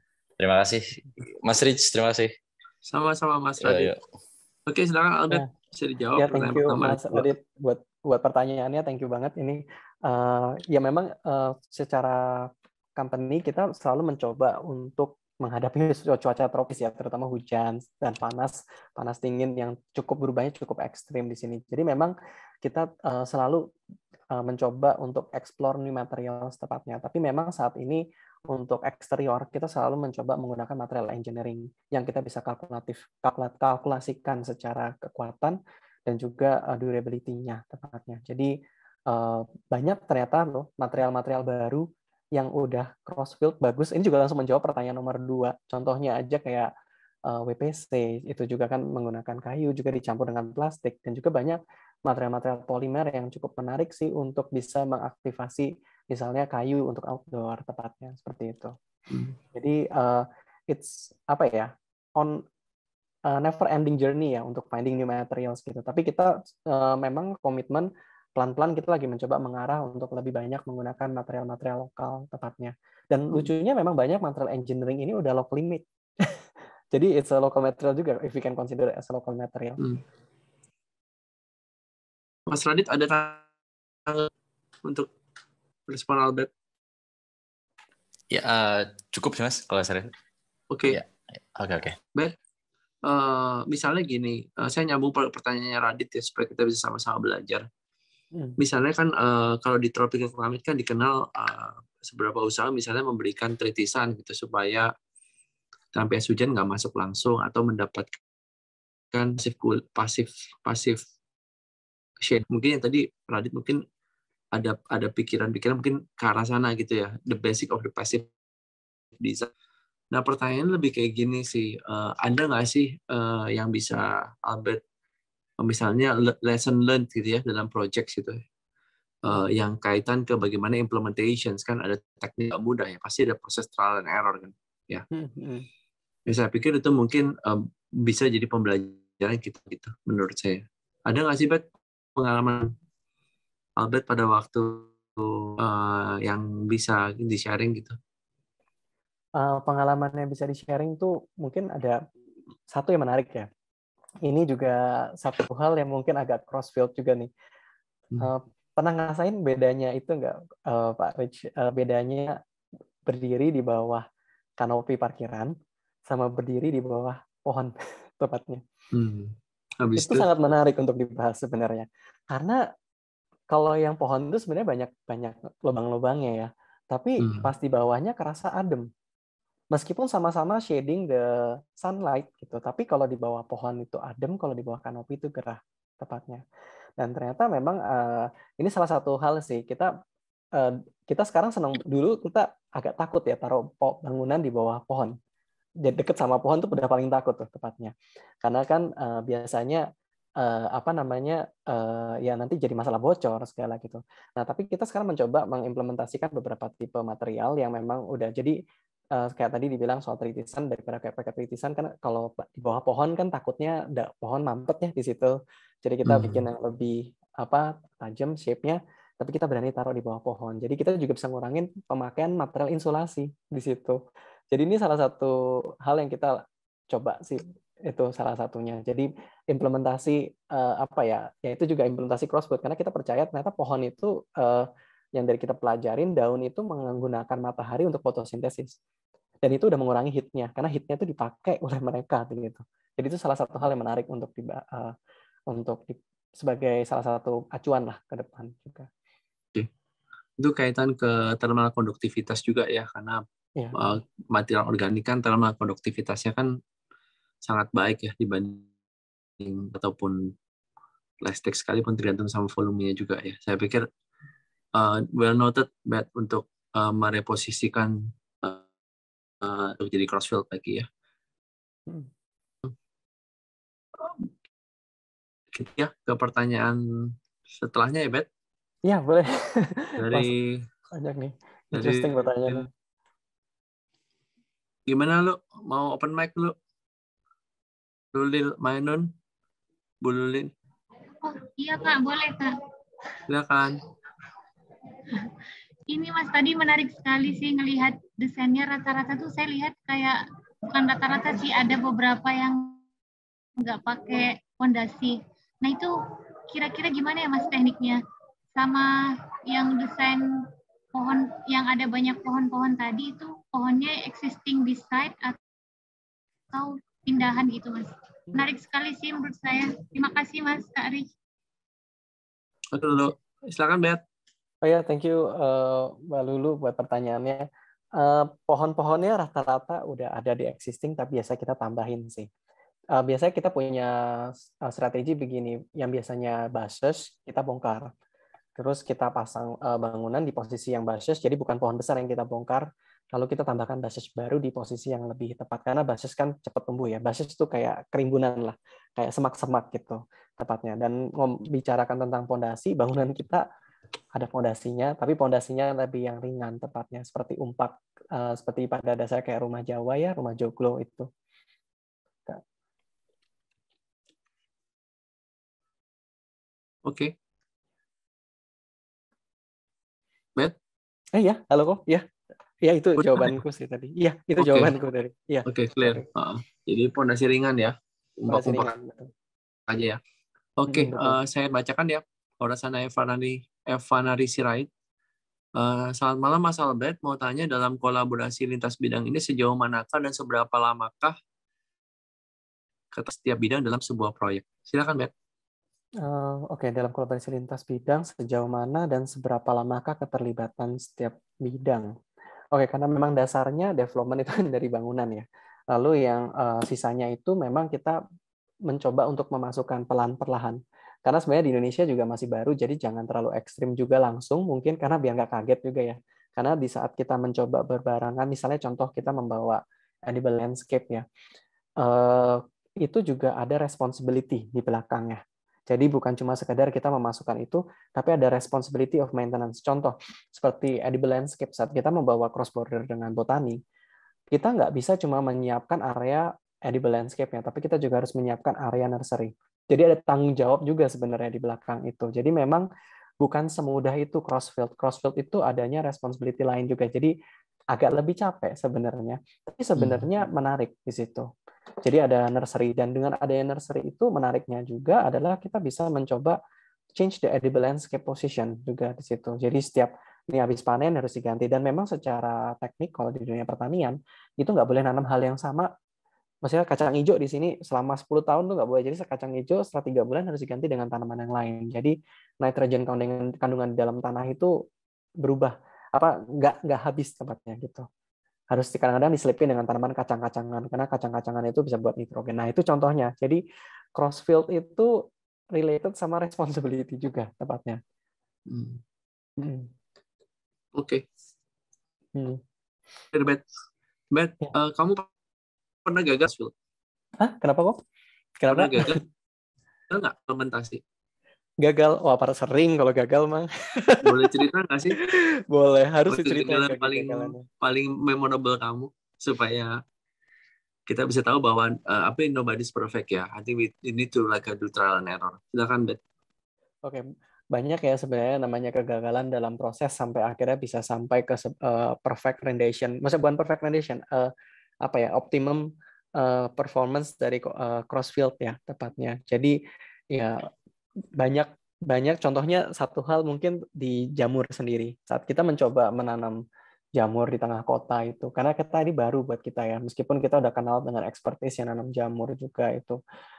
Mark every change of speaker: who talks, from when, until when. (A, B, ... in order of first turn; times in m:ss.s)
0:00.4-0:02.3 A
0:02.9-0:03.9 B
0:03.6-0:04.0 A
0:04.7-0:07.3 B
0:06.2-0:23.6 C
0:24.3-0:38.6 C
0:39.1-0:46.7 C
0:47.3-0:58.7 C
0:59.1-0:59.4 B
0:59.5-1:02.4 C
1:03.3-1:16.4 C
1:16.9-1:19.8 C
1:22.5-1:23.4 B
1:24.8-1:25.1 B
1:25.9-1:26.5 B
1:28.3-1:30.1 A
1:30.7-1:31.0 B
1:30.9-1:32.0 A
1:33.0-1:37.6 B
1:38.6-1:44.9 B
1:45.9-1:48.2 B
1:49.1-1:51.0 B
1:52.2-1:53.8 B
1:54.5-1:58.3 B
1:59.2-1:59.5 B
2:00.1-2:04.8 B
2:05.6-2:08.4 B
2:09.2-2:15.0 B
2:15.1-2:15.7 C
2:16.3-2:21.6 B
2:22.2-2:22.7 B
2:23.8-2:28.0 B
2:29.4-2:32.0 C
2:32.7-2:33.5 C
2:34.2-2:37.3 C
2:38.2-2:42.4 C
2:43.0-2:44.0 C
2:44.6-2:45.5 C
2:46.1-2:48.6 C
2:48.9-2:50.3 B
2:50.0-2:52.6 C
2:53.5-2:58.9 C
2:57.2-2:57.5 B
2:59.7-3:06.4 C
3:07.0-3:09.9 C
3:10.5-3:15.2 C
3:15.8-3:19.8 C
3:20.4-3:28.6 C
3:29.1-3:44.0 C
3:36.0-3:36.4 B
3:44.5-3:58.7 C
3:59.4-4:04.9 C
4:05.5-4:08.9 C
4:10.4-4:13.2 B
4:13.8-4:16.5 B
4:17.4-4:18.7 B
4:19.4-4:20.3 B
4:21.2-4:23.9 B
4:24.8-4:28.6 B
4:29.4-4:30.9 B
4:35.5-4:38.3 B
4:38.8-4:40.3 C
4:40.0-4:40.6 B
4:40.9-4:42.7 C
4:41.7-4:42.6 B
4:44.9-4:46.5 B
4:48.1-4:49.1 B
4:50.0-4:50.5 B
4:51.2-4:52.5 D
4:53.3-4:53.8 B
4:55.9-5:00.2 D
5:00.7-5:02.8 D
5:03.6-5:05.9 D
5:06.5-5:08.0 D
5:08.6-5:08.9 D
5:09.5-5:10.2 D
5:10.9-5:15.4 D
5:16.5-5:21.1 D
5:22.7-5:24.0 B
5:24.6-5:32.3 C
5:32.9-5:37.9 C
5:38.6-5:53.4 C
5:54.1-6:01.1 C
6:06.8-6:07.1 B
6:11.1-6:12.0 C
6:12.6-6:16.0 C
6:13.0-6:13.4 B
6:14.4-6:14.7 B
6:15.5-6:18.7 B
6:18.3-6:19.1 C
6:19.7-6:20.0 B
6:20.6-6:24.7 B
6:20.7-6:21.2 C
6:25.6-6:31.1 B
6:32.9-6:35.1 B
6:36.0-6:41.9 C
6:42.5-6:48.0 C
6:48.7-7:01.0 C
7:01.8-7:13.6 C
7:14.3-7:22.6 C
7:23.2-7:27.1 C
7:27.7-7:31.3 C
7:29.8-7:30.1 B
7:31.8-7:36.4 C
7:36.9-7:45.7 C
7:46.4-7:54.5 C
7:55.2-7:57.8 C
7:58.5-8:03.4 C
8:04.0-8:04.9 C
8:05.5-8:07.8 C
8:08.5-8:08.8 B
8:09.4-8:09.7 C
8:10.8-8:11.0 B
8:12.1-8:12.4 C
8:13.1-8:13.4 B
8:14.1-8:15.1 B
8:15.8-8:16.5 B
8:17.2-8:17.8 C
8:18.4-8:19.0 C
8:18.5-8:19.0 B
8:19.9-8:20.8 B
8:21.6-8:24.3 C
8:24.0-8:25.0 B
8:25.0-8:27.4 C
8:26.1-8:29.7 B
8:30.9-8:36.0 B
8:36.8-8:44.3 C
8:44.8-8:49.6 C
8:50.1-8:50.5 C
8:51.2-8:56.4 C
8:57.0-9:03.0 C